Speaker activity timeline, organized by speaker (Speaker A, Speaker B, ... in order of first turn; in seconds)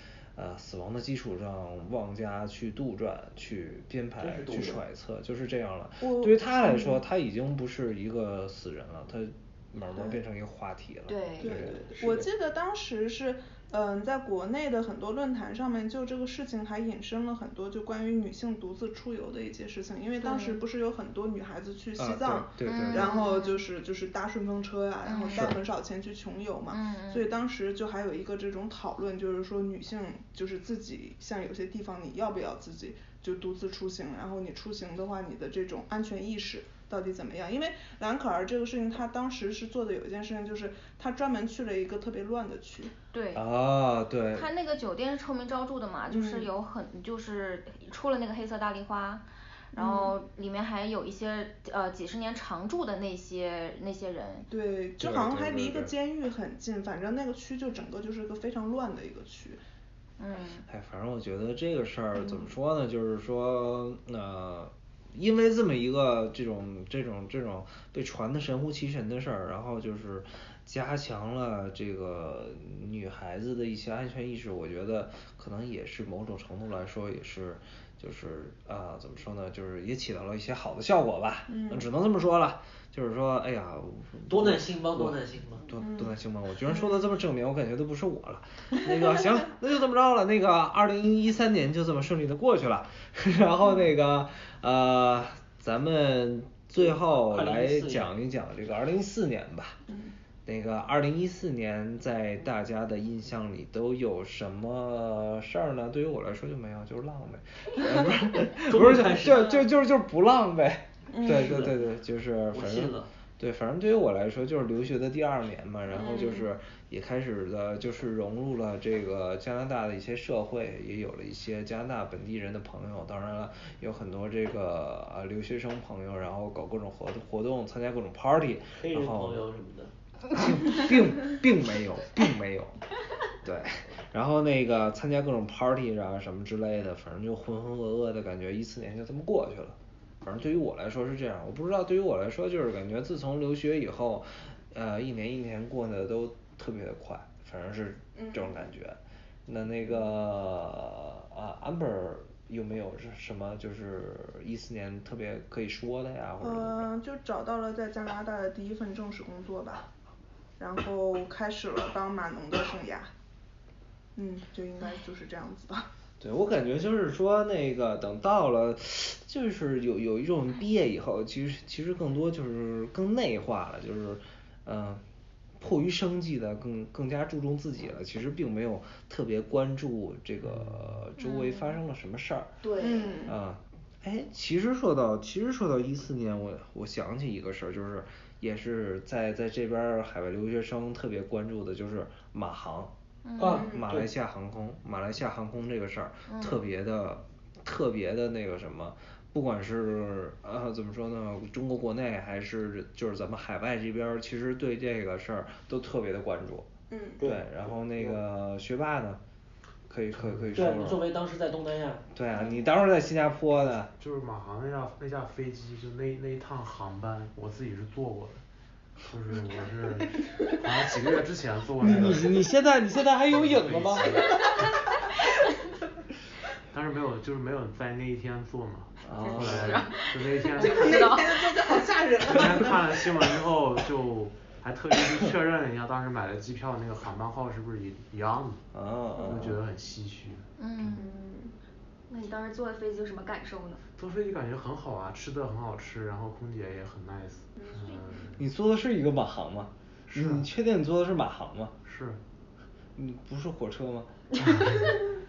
Speaker A: 0.3-11.8, 21.9-23.1, 43.3-44.5, 55.0-55.9, 60.7-99.8, 100.5-129.5, 130.3-132.8, 133.4-156.9, 166.2-175.0, 175.6-182.5, 183.2-192.9, 193.7-206.7, 207.2-209.2, 209.9-211.1, 212.1-213.9, 221.8-224.4, 229.1-229.8, 238.7-239.6, 248.4-251.8, 252.9-254.1
Speaker B: 4.2-4.8, 11.9-12.3, 84.3-85.7, 96.8-98.1, 108.6-109.6, 111.3-111.8, 112.5-113.1, 128.8-129.9, 193.4-194.1, 207.2-208.2, 210.5-212.1
Speaker C: 6.0-7.0, 11.4-42.9, 46.1-46.5, 49.7-50.1, 54.5-59.6, 62.2-62.5, 81.5-81.9, 85.8-86.1, 86.7-87.0, 99.9-100.1, 111.1-111.6, 115.9-116.4, 148.2-148.7, 156.4-159.9, 160.6-163.1, 164.2-165.9, 182.8-183.3, 206.9-207.2, 212.4-212.7, 230.6-233.2, 240.9-241.5, 247.6-248.0
Speaker D: 11.1-11.7, 182.6-183.1, 229.2-230.0, 230.6-231.3, 242.1-243.8
Speaker E: 20.2-20.6, 22.6-23.6, 25.0-25.6, 26.7-27.3, 43.1-43.4, 44.3-54.5, 60.2-60.6, 181.2-181.8, 193.2-193.7, 196.3-196.6, 230.8-231.2, 240.6-241.1
Speaker F: 180.4-181.1, 210.1-210.6, 213.9-218.4, 219.0-222.4, 223.3-224.4, 226.7-231.1, 232.2-238.6, 239.2-240.5, 244.0-248.4, 250.1-250.5, 251.8-252.2